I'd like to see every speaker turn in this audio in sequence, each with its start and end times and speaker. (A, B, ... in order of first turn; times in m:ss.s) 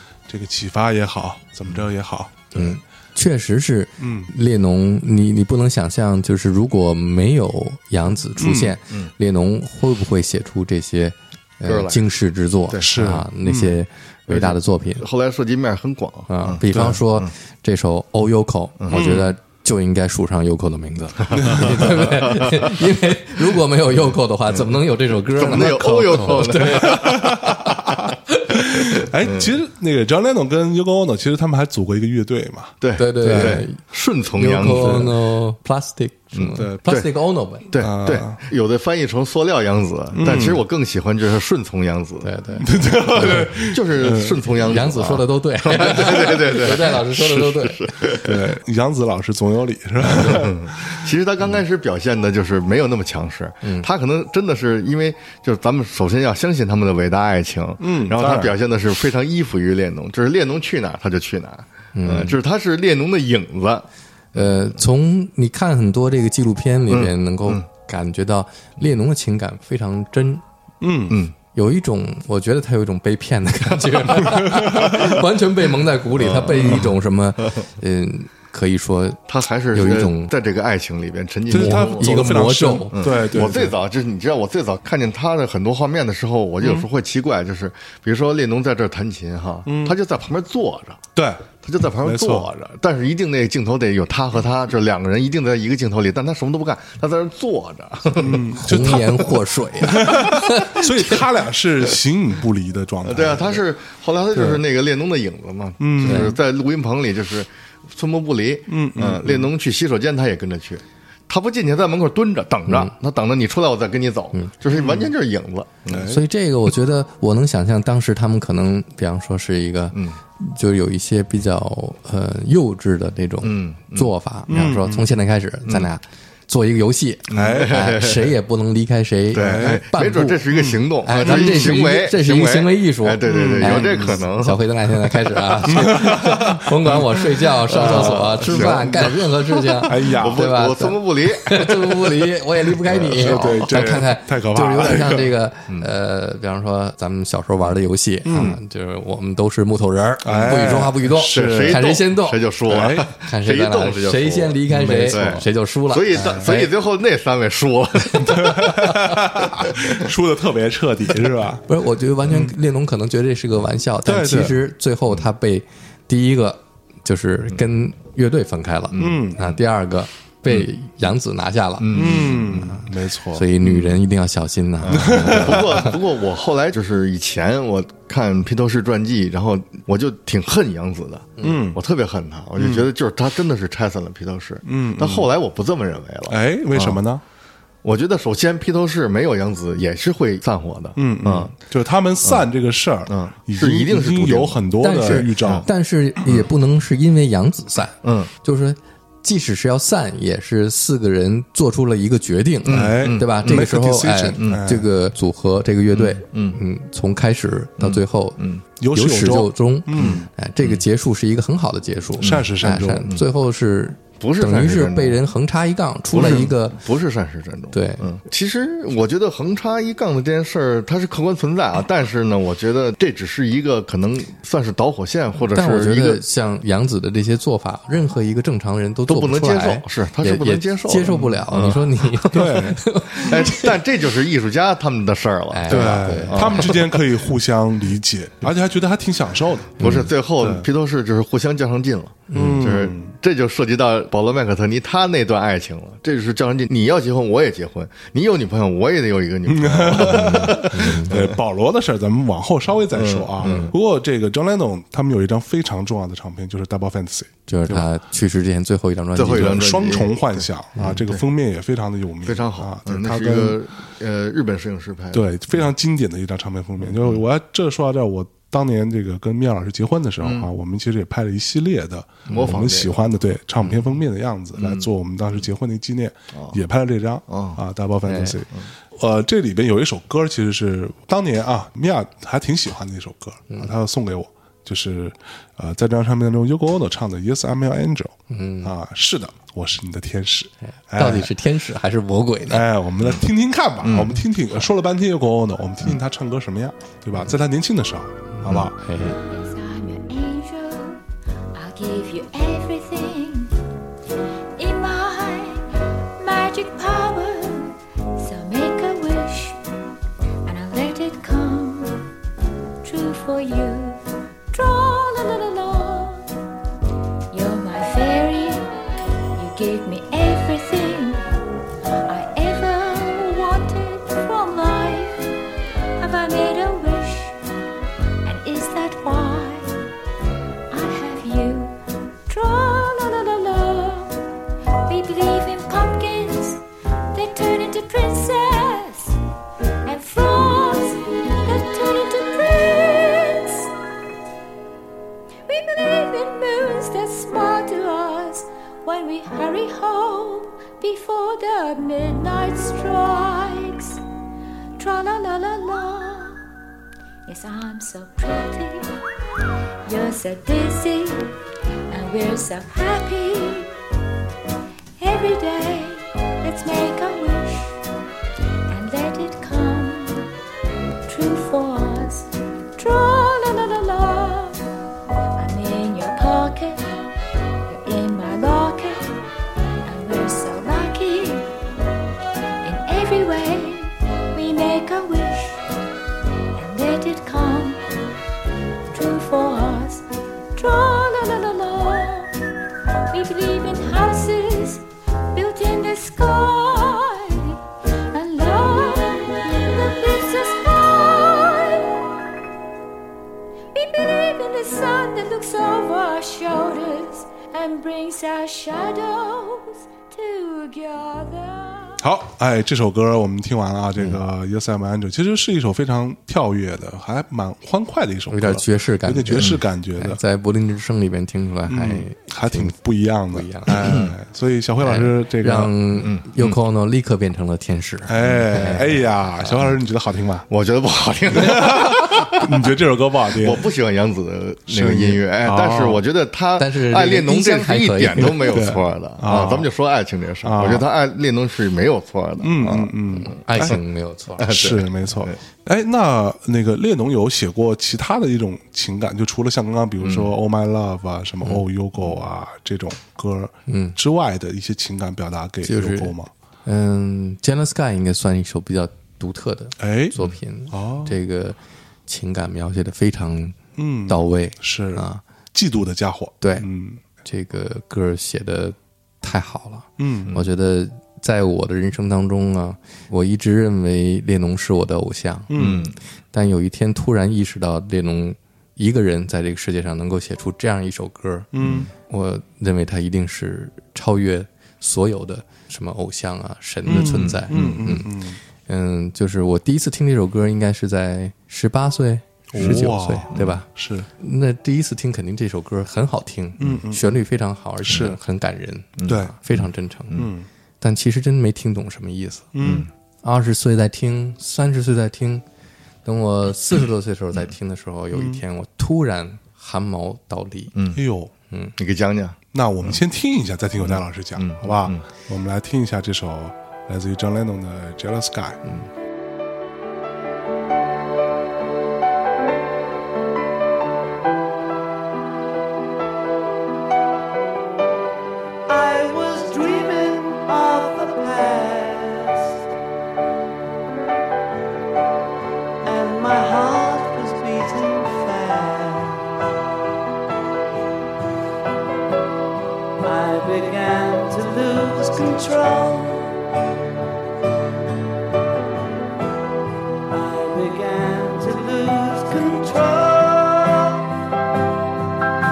0:00.3-0:02.6 A
0:02.5-0:15.1 B
0:04.0-0:04.3 A
0:08.5-0:09.1 C
0:11.6-0:12.1 C
0:12.7-0:13.1 C
0:12.8-0:13.8 A
0:14.3-0:17.3 C
0:16.3-0:27.8 B
0:16.7-0:17.0 A
0:18.8-0:19.2 C
0:18.9-0:19.3 A
0:21.2-0:22.7 C
0:21.3-0:22.1 A
0:25.3-0:27.2 C
0:26.4-0:33.6 A
0:29.1-0:29.5 C
0:32.8-0:35.2 C
0:33.0-0:33.8 B
0:34.3-0:37.7 B
0:36.3-0:37.1 C
0:37.7-0:42.3 C
0:37.8-0:38.4 A
0:40.1-0:40.6 A
0:42.2-0:43.4 B
0:42.6-0:44.4 A
0:43.1-0:48.4 C
0:44.6-0:47.9 B
0:48.2-0:51.0 A
0:50.0-1:04.6 C
0:53.6-0:53.9 B
0:57.8-0:58.5 A
1:02.0-1:02.4 B
1:04.3-1:10.4 B
1:06.9-1:07.6 C
1:10.8-1:11.2 A
1:11.1-1:11.4 C
1:11.5-1:19.2 B
1:14.4-1:15.1 A
1:16.1-1:17.6 C
1:19.3-1:31.0 C
1:19.7-1:20.3 B
1:21.5-1:23.7 A
1:21.5-1:23.0 B
1:26.6-1:26.9 A
1:29.7-1:30.0 A
1:31.2-1:31.4 A
1:31.6-1:39.3 C
1:32.0-1:32.5 A
1:38.2-1:43.6 A
1:38.6-1:41.2 B
1:43.0-1:56.1 C
1:45.8-1:46.3 A
1:46.0-1:46.4 B
1:48.7-1:49.5 A
1:52.7-1:53.0 B
1:54.7-1:55.0 A
1:55.9-1:56.2 A
1:55.9-2:10.5 B
1:59.9-2:00.2 C
2:03.4-2:04.8 C
2:04.5-2:05.1 A
2:07.3-2:08.3 C
2:07.3-2:07.8 A
2:09.3-2:16.1 C
2:09.4-2:09.8 A
2:10.5-2:11.8 A
2:11.0-2:32.5 B
2:13.3-2:14.1 A
2:15.7-2:19.2 A
2:17.7-2:24.0 C
2:19.8-2:20.4 A
2:23.1-2:25.3 A
2:24.8-2:25.2 C
2:28.3-2:28.6 A
2:28.3-2:28.6 C
2:30.2-2:32.0 A
2:30.3-2:38.8 C
2:32.7-2:33.1 A
2:33.2-2:36.7 B
2:34.7-2:35.4 A
2:36.2-2:36.5 A
2:38.2-2:41.6 A
2:41.7-2:56.0 B
2:42.3-2:42.5 A
2:44.0-2:44.6 A
2:48.9-2:49.4 C
2:49.0-2:49.4 A
2:51.8-2:52.8 C
2:51.9-2:53.4 A
2:53.6-2:54.0 C
2:54.8-3:07.0 C
2:54.9-2:55.9 A
3:01.4-3:01.8 A
3:02.6-3:02.9 A
3:04.7-3:05.3 A
3:06.3-3:07.2 A
3:07.8-3:11.5 C
3:11.0-3:15.7 A
3:13.1-3:15.7 C
3:14.8-3:28.4 B
3:18.0-3:18.3 C
3:22.6-3:23.7 C
3:22.7-3:24.9 A
3:24.4-3:24.6 C
3:25.9-3:26.6 C
3:27.8-3:28.6 C
3:28.8-3:30.3 A
3:28.9-3:36.8 B
3:30.0-3:30.8 C
3:32.2-3:33.1 A
3:32.2-3:33.3 C
3:34.2-3:35.2 C
3:36.1-3:46.2 C
3:37.7-3:38.1 B
3:45.5-3:53.8 B
3:49.1-3:57.0 C
3:52.3-3:52.8 A
3:55.5-3:56.8 B
3:55.7-4:00.7 A
3:59.8-4:00.1 B
3:59.8-4:11.4 C
4:02.3-4:02.8 B
4:02.3-4:03.1 A
4:09.5-4:17.9 A
4:10.1-4:11.1 B
4:12.9-4:13.8 C
4:13.4-4:13.7 B
4:17.5-4:19.8 B
4:19.2-4:21.2 C
4:19.3-4:23.6 A
4:22.2-4:25.7 C
4:25.1-4:51.3 A
4:26.8-4:27.2 C
4:30.2-4:30.5 C
4:32.3-4:33.0 C
4:34.6-4:35.5 C
4:36.3-4:36.6 C
4:37.3-4:37.6 C
4:38.0-4:38.4 B
4:48.3-4:48.7 B
4:50.9-4:52.7 B
4:52.5-4:58.8 A
4:53.8-4:54.2 C
4:58.3-4:59.2 B
4:59.1-5:03.6 D
5:04.6-5:09.6 D
5:10.4-5:12.0 D
5:12.8-5:16.3 D
5:17.3-5:18.7 D
5:19.4-5:21.2 D
5:22.1-5:25.3 D
5:26.0-5:27.4 D
5:28.2-5:29.8 D
5:30.7-5:34.2 D
5:34.9-5:39.2 D
5:39.8-5:43.7 D
5:45.5-5:54.0 D
5:54.8-5:56.4 D
5:57.2-5:59.0 D
5:59.8-6:01.3 D
6:01.9-6:03.7 D
6:05.0-6:07.8 D
6:08.7-6:10.3 D
6:11.1-6:14.6 D
6:15.4-6:16.8 D
6:17.7-6:19.1 D
6:19.8-6:21.5 D
6:22.6-6:25.6 D
6:26.6-6:27.8 D
6:28.9-6:32.4 D
6:33.1-6:37.6 D
6:38.1-6:42.4 D
6:43.7-6:52.0 D
6:52.0-7:00.2 A
6:58.3-7:02.8 B
6:59.4-6:59.6 C
7:01.7-7:05.8 A
7:03.3-7:04.0 B
7:03.8-7:04.2 C
7:04.8-7:09.7 B
7:06.0-7:06.3 C
7:08.1-7:10.5 A
7:10.5-7:12.7 C
7:11.3-7:13.7 A
7:13.4-7:23.8 C
7:14.7-7:16.0 A
7:16.6-7:18.6 B
7:18.5-7:19.7 A
7:20.4-7:20.9 A
7:22.4-7:23.8 A
7:23.3-7:24.5 B
7:24.4-7:25.4 C
7:24.4-7:36.3 A
7:30.0-7:30.3 C
7:33.7-7:34.0 B
7:35.6-7:36.1 B
7:36.6-7:45.2 B
7:39.8-7:40.2 A
7:40.7-7:41.2 A
7:43.8-7:47.0 A
7:46.4-7:46.7 B
7:47.2-7:55.5 B
7:50.0-7:50.4 A
7:55.5-7:55.9 A
7:55.5-7:56.0 C
7:56.3-8:01.5 B
8:01.5-8:01.9 A
8:01.6-8:01.9 C
8:02.1-8:08.1 B
8:06.9-8:08.4 A
8:06.9-8:07.8 C
8:08.7-8:20.3 B
8:12.5-8:14.1 A
8:12.6-8:13.6 C
8:16.6-8:17.1 A
8:17.8-8:18.2 A
8:19.0-8:20.3 C
8:19.0-8:19.4 A
8:20.1-8:20.5 A
8:20.8-8:22.5 B
8:22.5-8:22.9 A
8:22.6-8:22.9 C
8:23.2-8:25.4 B
8:26.0-8:30.7 B
8:28.1-8:28.4 A
8:30.7-8:31.0 C
8:30.9-8:31.3 A
8:31.5-8:31.8 B
8:31.8-8:33.0 C
8:32.5-8:38.6 A
8:33.8-8:35.0 C
8:48.7-8:52.7 E
8:55.8-8:59.3 E
9:03.0-9:06.3 E
9:10.1-9:14.1 E